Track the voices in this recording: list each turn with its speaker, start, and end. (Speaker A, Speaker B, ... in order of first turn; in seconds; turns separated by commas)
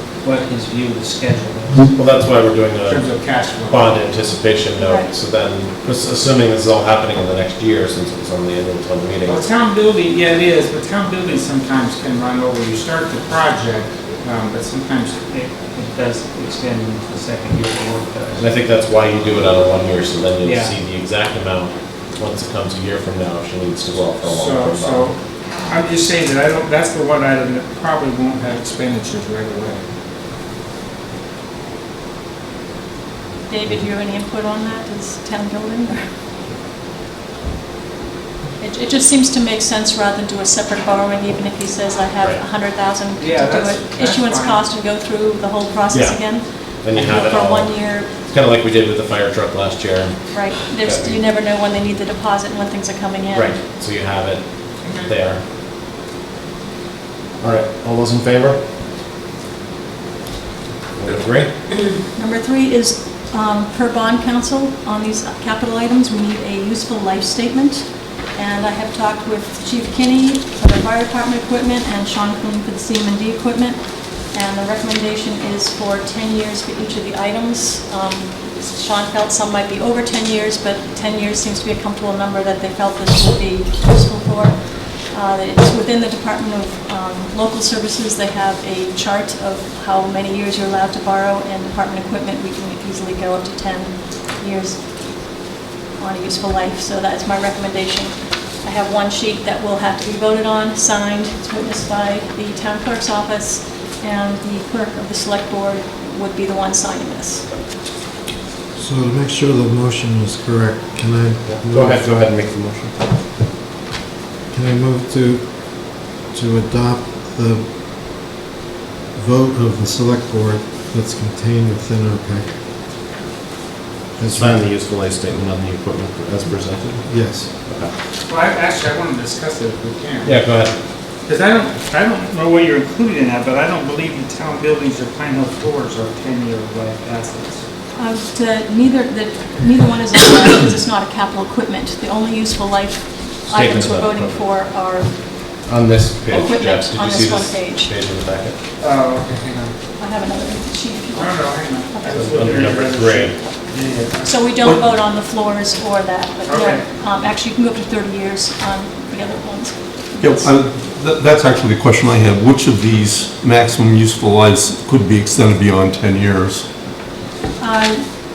Speaker A: 0.2-1.9, Speaker B: 1.9-9.4, Speaker A: 2.9-4.0, Speaker C: 4.8-5.1, Speaker A: 9.2-18.5, Speaker B: 18.4-25.1, Speaker A: 20.4-20.8, Speaker A: 24.2-29.8, Speaker C: 33.5-36.0, Speaker C: 38.6-48.1, Speaker A: 43.2-44.6, Speaker B: 45.9-46.2, Speaker B: 46.8-50.2, Speaker C: 50.3-53.6, Speaker B: 50.8-51.2, Speaker B: 53.3-54.4, Speaker B: 55.0-55.4, Speaker B: 57.4-58.6, Speaker B: 61.0-61.6, Speaker C: 62.2-67.8, Speaker C: 68.3-73.8, Speaker C: 74.3-94.8, Speaker C: 96.0-107.5, Speaker D: 108.8-112.1, Speaker B: 111.5-113.0, Speaker D: 114.5-117.7, Speaker D: 119.2-122.5, Speaker B: 124.2-127.0, Speaker D: 124.2-124.6, Speaker D: 127.1-127.5, Speaker A: 128.3-130.4, Speaker B: 130.2-130.7, Speaker A: 131.3-137.6, Speaker C: 137.9-145.1, Speaker B: 143.5-144.4, Speaker B: 145.7-148.6, Speaker C: 146.3-147.9, Speaker A: 148.8-149.8, Speaker C: 150.0-152.3, Speaker A: 151.1-154.4, Speaker B: 152.1-153.4, Speaker C: 154.2-160.5, Speaker A: 156.5-156.8, Speaker E: 160.2-166.7, Speaker C: 167.6-168.0